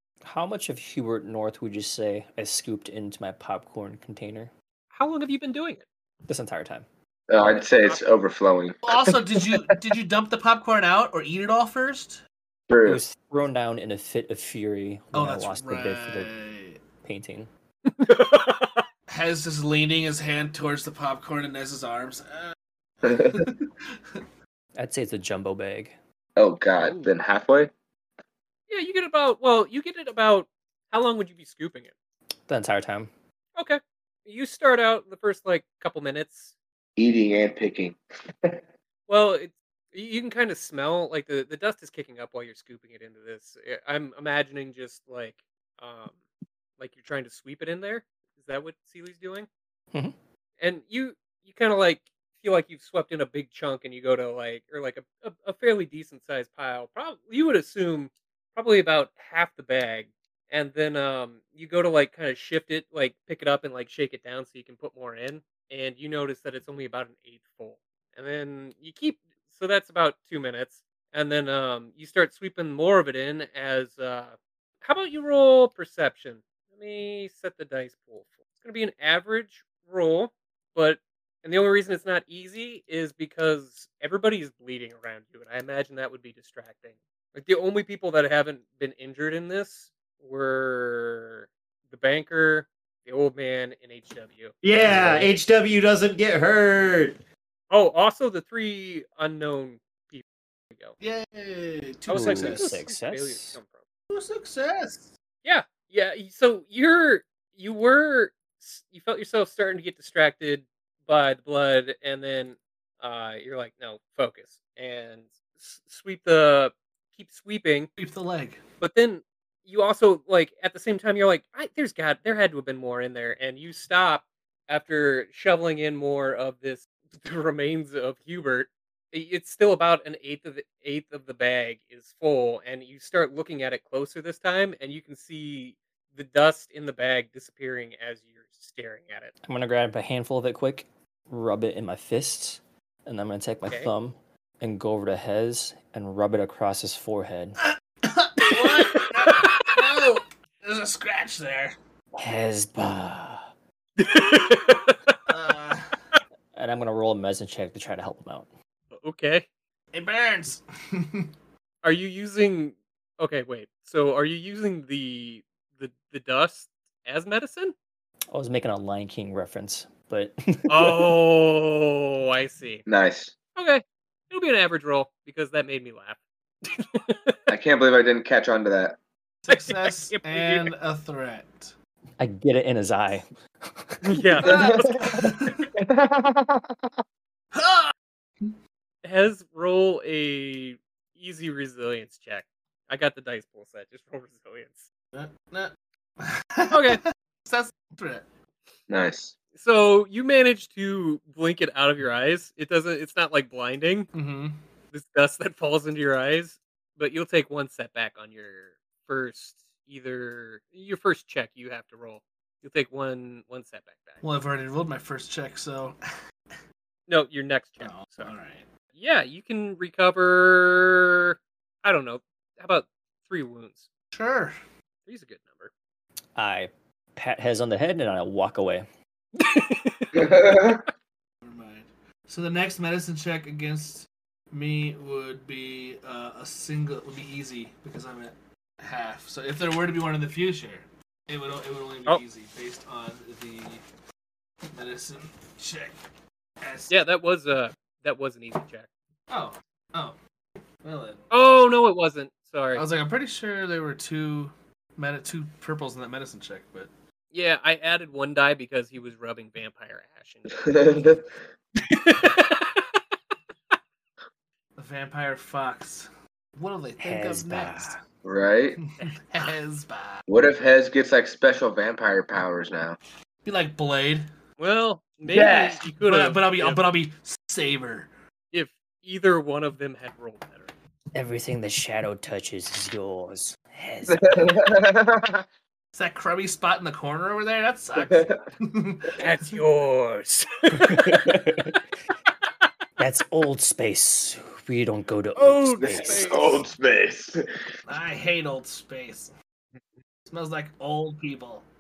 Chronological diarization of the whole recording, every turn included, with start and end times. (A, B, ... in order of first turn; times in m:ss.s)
0:00.2-0:04.5 A
0:04.9-0:05.9 B
0:06.3-0:06.9 A
0:07.3-0:09.7 C
0:08.8-0:12.2 D
0:12.7-0:13.0 C
0:12.8-0:16.3 A
0:15.1-0:16.8 D
0:17.0-0:17.5 A
0:17.9-0:18.8 B
0:19.1-0:24.2 D
0:23.0-0:23.5 C
0:24.8-0:26.0 A
0:26.4-0:27.7 C
0:28.7-0:31.9 B
0:32.5-0:33.1 A
0:33.6-0:36.5 B
0:37.0-0:38.6 C
0:39.1-0:46.2 B
0:46.8-0:49.5 B
0:50.6-1:34.6 B
1:34.6-1:37.2 E
1:34.8-1:35.3 A
1:37.7-1:41.0 B
1:41.0-1:42.7 D
1:42.1-1:43.8 B
1:42.1-1:43.6 A
1:44.1-1:45.1 D
1:45.4-1:57.9 B
1:58.0-1:58.6 D
1:58.8-2:19.3 B
2:19.4-2:27.6 A
2:23.7-2:23.9 B
2:28.0-2:31.8 D
2:28.5-2:29.8 B
2:32.2-2:33.5 A
2:34.0-2:35.2 B
2:35.3-2:36.0 D
2:36.6-2:38.5 A
2:38.9-2:39.5 B
2:39.9-2:41.3 D
2:41.8-2:47.8 B
2:48.3-2:51.0 A
2:50.7-2:52.9 B
2:52.9-2:53.3 C
2:53.6-2:56.2 B
2:56.7-2:57.4 B
2:57.5-2:59.0 C
2:59.4-3:01.7 D
2:59.5-3:00.7 B
3:02.2-3:04.4 A
3:04.0-3:04.9 B
3:04.4-3:05.6 D
3:04.5-3:06.8 C
3:07.5-3:08.5 D
3:09.0-3:14.9 B
3:15.1-3:18.3 D
3:16.7-3:17.0 B
3:18.9-3:19.4 C
3:19.6-3:24.1 B
3:24.1-3:24.6 D
3:24.9-3:34.2 B
3:34.2-3:36.0 D
3:37.1-3:38.3 B
3:37.8-3:38.7 D
3:39.0-3:43.9 B
3:44.1-3:44.6 D
3:45.1-3:45.7 B
3:46.4-3:48.9 A
3:49.4-3:50.3 B
3:50.1-3:50.8 C
3:51.4-4:03.8 D
4:04.7-4:06.0 D
4:06.6-4:06.9 D
4:06.9-4:08.9 B
4:09.3-4:10.2 D
4:10.8-4:11.3 D
4:11.3-4:12.8 B
4:12.8-4:16.9 D
4:17.3-4:20.8 B
4:20.6-4:21.3 C
4:21.9-4:23.0 B
4:24.8-4:28.0 D
4:27.0-4:28.0 A
4:28.2-4:28.8 C
4:28.8-4:30.2 D
4:30.3-4:33.0 C
4:33.4-4:34.3 D
4:34.6-4:36.9 B
4:35.3-4:35.8 C
4:35.4-4:38.1 D
4:38.5-4:40.7 B
4:41.1-4:44.7 A
4:44.2-4:45.4 C
4:46.0-4:49.2 D
4:48.0-4:48.4 C
4:49.2-4:51.6 B
4:50.8-4:51.8 A
4:53.0-4:56.6 A
4:55.4-4:56.6 B
4:55.8-4:57.4 C
4:57.9-4:59.3 D
5:00.3-5:01.7 D